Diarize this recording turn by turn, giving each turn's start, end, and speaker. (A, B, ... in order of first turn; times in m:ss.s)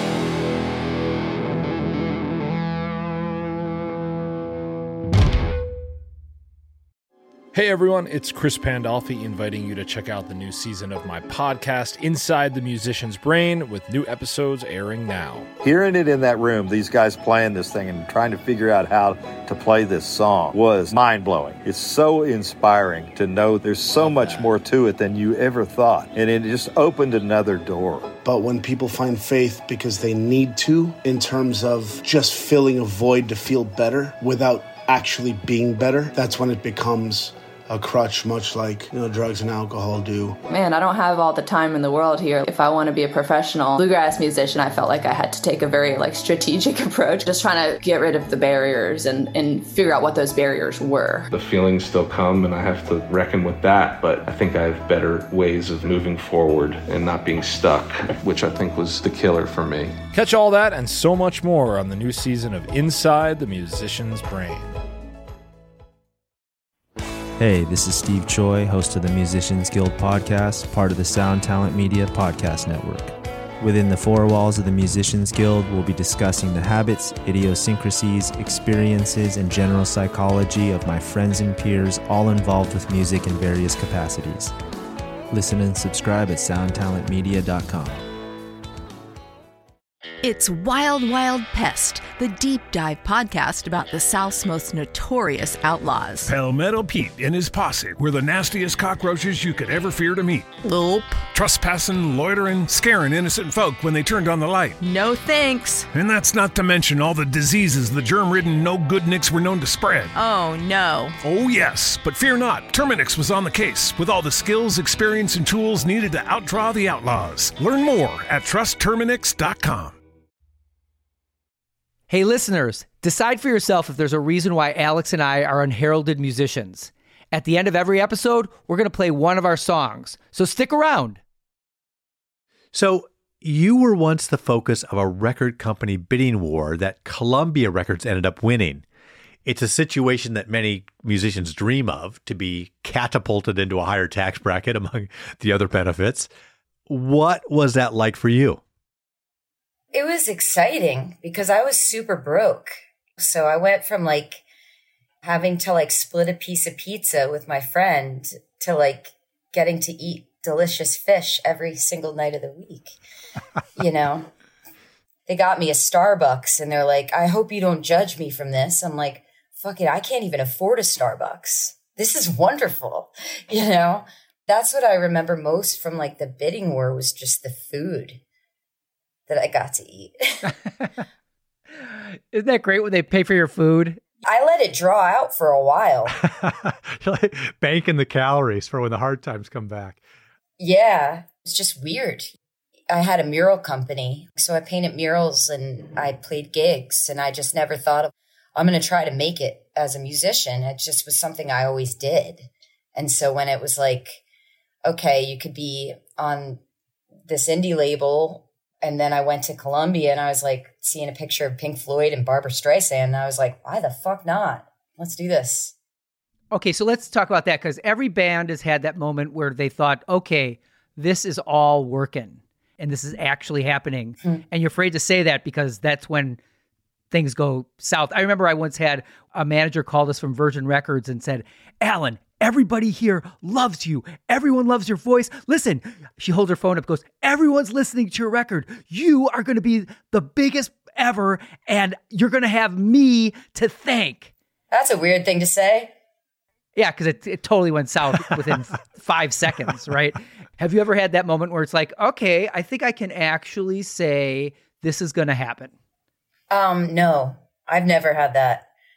0:07.5-0:15.5 A
0:15.6-0:28.1 B
0:24.0-0:24.5 A
0:28.2-0:40.4 C
0:40.5-0:51.3 D
0:51.3-1:00.0 E
1:00.1-1:04.8 A
1:07.4-1:24.5 F
1:25.3-1:28.0 F
1:30.2-1:36.3 G
1:36.3-1:40.5 H
1:40.6-1:41.2 G
1:41.3-1:44.8 H
1:44.8-1:45.9 G
1:45.9-1:50.1 H
1:50.1-1:51.2 G
1:51.2-2:00.0 H
2:02.1-2:11.2 I
2:12.7-2:18.8 J
2:19.4-2:26.3 J
2:26.9-2:28.6 J
2:29.9-2:34.4 K
2:35.2-2:42.9 K
2:43.8-2:44.3 K
2:45.3-2:58.2 K
2:59.3-3:00.4 K
3:01.8-3:04.0 I
3:04.2-3:06.2 K
3:06.2-3:10.0 J
3:10.6-3:12.3 K
3:12.9-3:24.2 K
3:24.8-3:26.6 K
3:27.3-3:35.7 K
3:36.5-3:46.4 I
3:47.1-4:04.3 I
4:04.7-4:05.9 K
4:06.8-4:15.7 I
4:16.5-4:18.6 K